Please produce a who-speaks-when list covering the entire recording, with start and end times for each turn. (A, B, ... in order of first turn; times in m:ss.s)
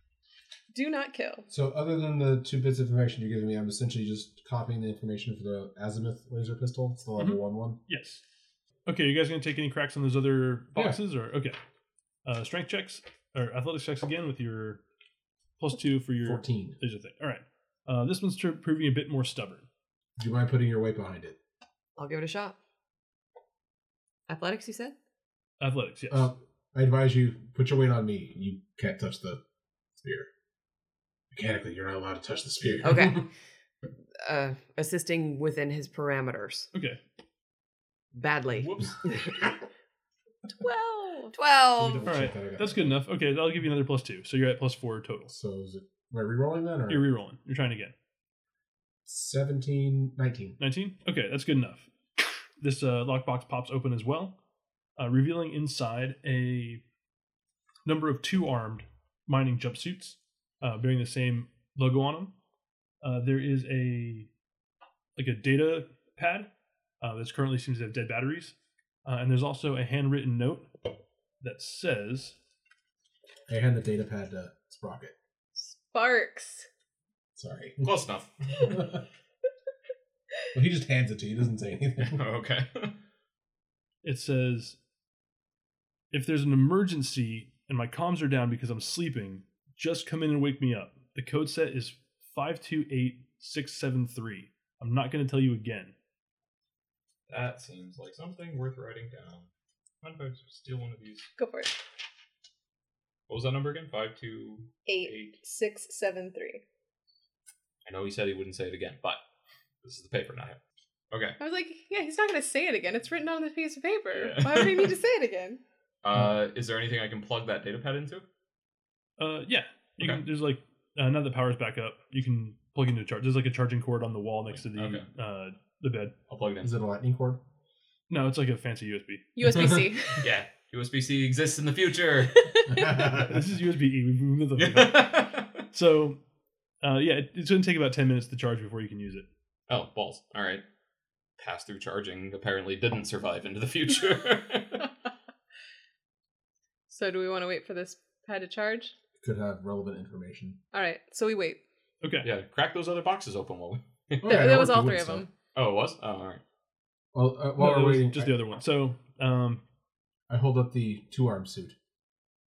0:00.7-0:01.4 A
0:01.5-0:07.8 B
0:07.2-0:08.2 C
0:08.8-0:11.6 C
0:10.7-0:11.0 B
0:12.2-0:14.8 C
0:15.6-0:19.7 C
0:16.2-0:16.8 B
0:20.2-0:21.4 B
0:22.0-0:22.6 D
0:24.3-0:25.0 D
0:25.6-0:26.3 C
0:26.1-0:29.4 B
0:30.0-0:30.3 B
0:31.3-0:33.3 B
0:32.8-0:33.3 D
0:34.2-0:36.7 D
0:36.7-0:37.0 C
0:38.1-0:39.5 D
0:40.6-0:41.3 A
0:41.3-0:42.1 D
0:41.8-0:43.0 B
0:42.0-0:45.3 C
0:45.3-0:47.1 B
0:46.9-0:47.9 C
0:49.0-0:50.6 B
0:50.6-0:54.4 C
0:55.0-0:56.8 C
0:57.8-1:02.3 C
1:03.0-1:04.3 C
1:05.2-1:08.5 C
1:09.0-1:10.7 C
1:11.4-1:12.4 C
1:13.5-1:15.1 B
1:15.6-1:16.7 A
1:17.4-1:17.9 B
1:17.8-1:18.8 E
1:18.6-1:19.0 B
1:20.5-1:22.2 B
1:22.0-1:23.0 E
1:24.0-1:24.8 C
1:26.1-1:35.9 C
1:37.3-1:39.5 E
1:40.0-1:41.3 E
1:41.4-1:41.7 A
1:43.3-1:45.4 E
1:44.9-1:46.6 A
1:47.8-1:49.2 E
1:49.8-1:50.6 E
1:51.1-1:51.4 E
1:51.4-1:55.6 A
1:54.1-1:54.9 E
1:56.0-1:58.2 E
1:59.2-2:06.1 C
2:04.6-2:05.1 E
2:06.3-2:06.7 E
2:06.6-2:07.4 B
2:08.1-2:09.4 C
2:09.4-2:10.2 A
2:10.2-2:12.5 E
2:12.3-2:13.1 A
2:12.7-2:13.3 B
2:13.1-2:16.2 C
2:14.6-2:15.6 E
2:16.8-2:19.3 C
2:19.7-2:20.6 E
2:21.4-2:24.9 E
2:26.9-2:28.9 A
2:29.2-2:30.6 B
2:30.7-2:31.6 A
2:32.0-2:32.3 C
2:32.2-2:34.7 E
2:34.2-2:35.2 B
2:34.2-2:35.3 A
2:35.5-2:36.4 E
2:37.1-2:38.4 B
2:37.6-2:39.6 C
2:40.3-2:41.7 B